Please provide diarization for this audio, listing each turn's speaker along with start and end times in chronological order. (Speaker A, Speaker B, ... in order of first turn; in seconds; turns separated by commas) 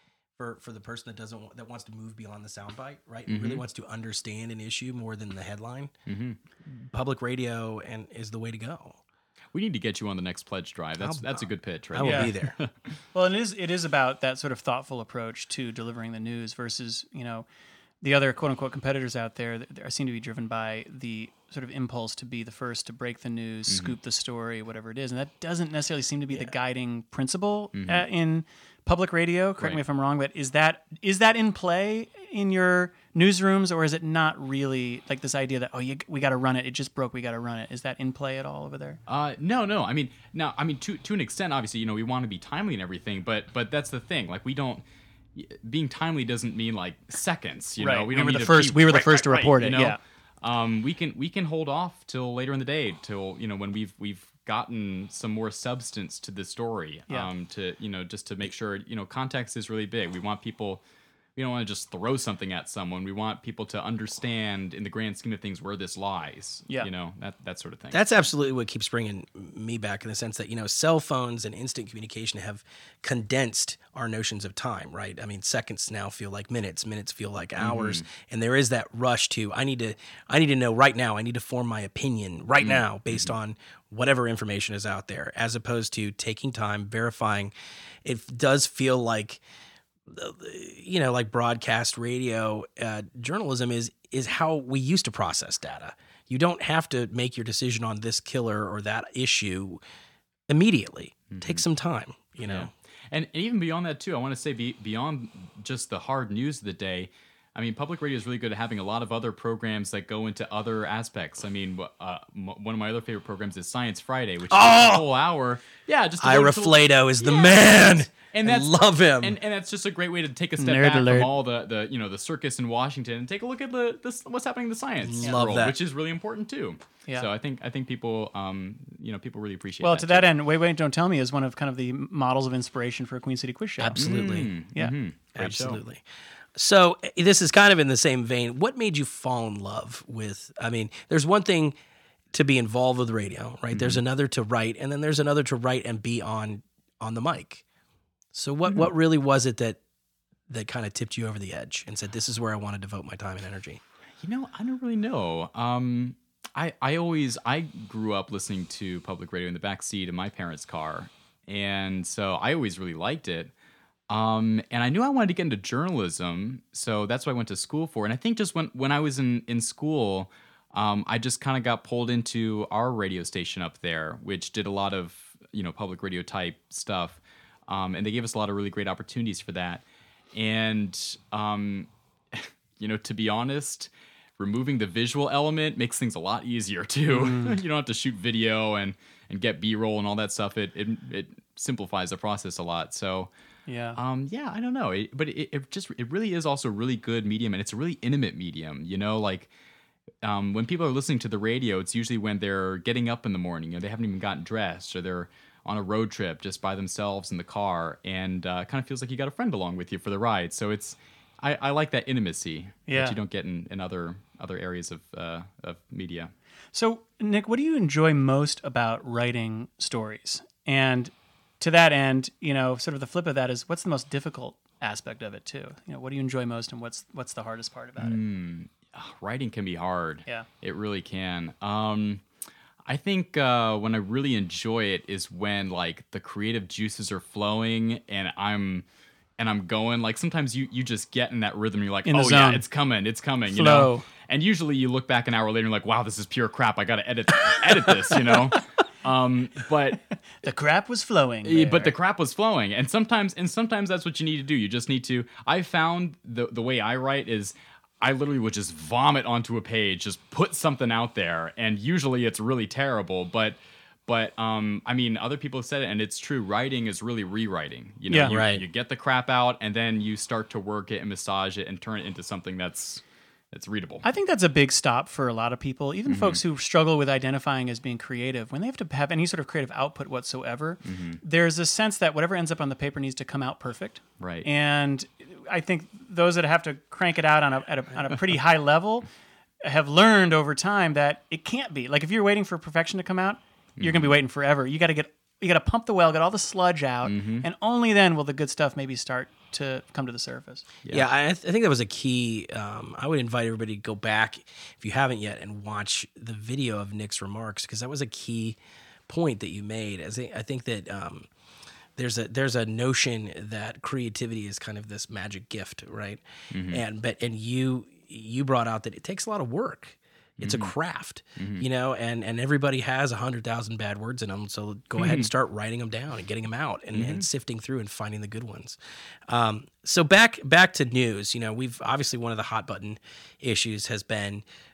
Speaker A: 0.4-5.9, Speaker B: 3.3-3.6, Speaker B: 6.1-6.4, Speaker A: 6.7-9.0, Speaker B: 9.5-12.9, Speaker A: 11.0-12.6, Speaker C: 12.0-12.3, Speaker C: 13.1-17.4, Speaker C: 18.0-39.0, Speaker B: 23.7-23.9, Speaker B: 27.7-28.1, Speaker B: 39.1-44.8, Speaker B: 45.3-60.8, Speaker C: 47.8-50.0, Speaker B: 61.4-68.0, Speaker A: 67.9-87.5, Speaker B: 77.6-78.0, Speaker B: 82.6-83.4, Speaker A: 88.0-89.4, Speaker A: 90.1-99.8, Speaker A: 100.5-102.7, Speaker B: 101.3-101.6, Speaker B: 102.4-130.3, Speaker A: 114.5-115.0, Speaker A: 116.2-119.4, Speaker C: 120.6-121.3, Speaker A: 125.0-125.7, Speaker C: 129.8-134.2, Speaker A: 133.8-134.5, Speaker B: 134.0-135.8, Speaker A: 135.3-136.0, Speaker A: 136.5-141.8, Speaker A: 142.3-147.6, Speaker B: 143.7-144.0, Speaker A: 148.3-149.8, Speaker A: 150.5-153.8, Speaker B: 154.2-163.5, Speaker B: 164.1-193.3, Speaker C: 187.1-187.6, Speaker C: 193.7-194.0, Speaker B: 193.9-199.5, Speaker B: 200.2-216.3, Speaker C: 212.9-213.2, Speaker C: 216.7-228.2, Speaker B: 228.0-232.2, Speaker B: 232.8-238.8, Speaker B: 239.4-250.0, Speaker C: 242.1-242.6, Speaker C: 243.5-244.1, Speaker C: 250.4-251.9, Speaker B: 251.4-274.0, Speaker C: 268.1-268.4, Speaker A: 268.3-268.6, Speaker C: 274.0-289.1, Speaker B: 276.1-276.4, Speaker B: 280.8-281.2, Speaker B: 284.2-284.5, Speaker C: 289.6-300.6, Speaker B: 293.8-294.1, Speaker B: 297.0-297.5, Speaker A: 300.9-311.3, Speaker A: 312.0-334.4, Speaker B: 316.5-316.8, Speaker B: 320.4-320.7, Speaker B: 321.4-321.6, Speaker B: 325.0-325.3, Speaker B: 326.9-327.3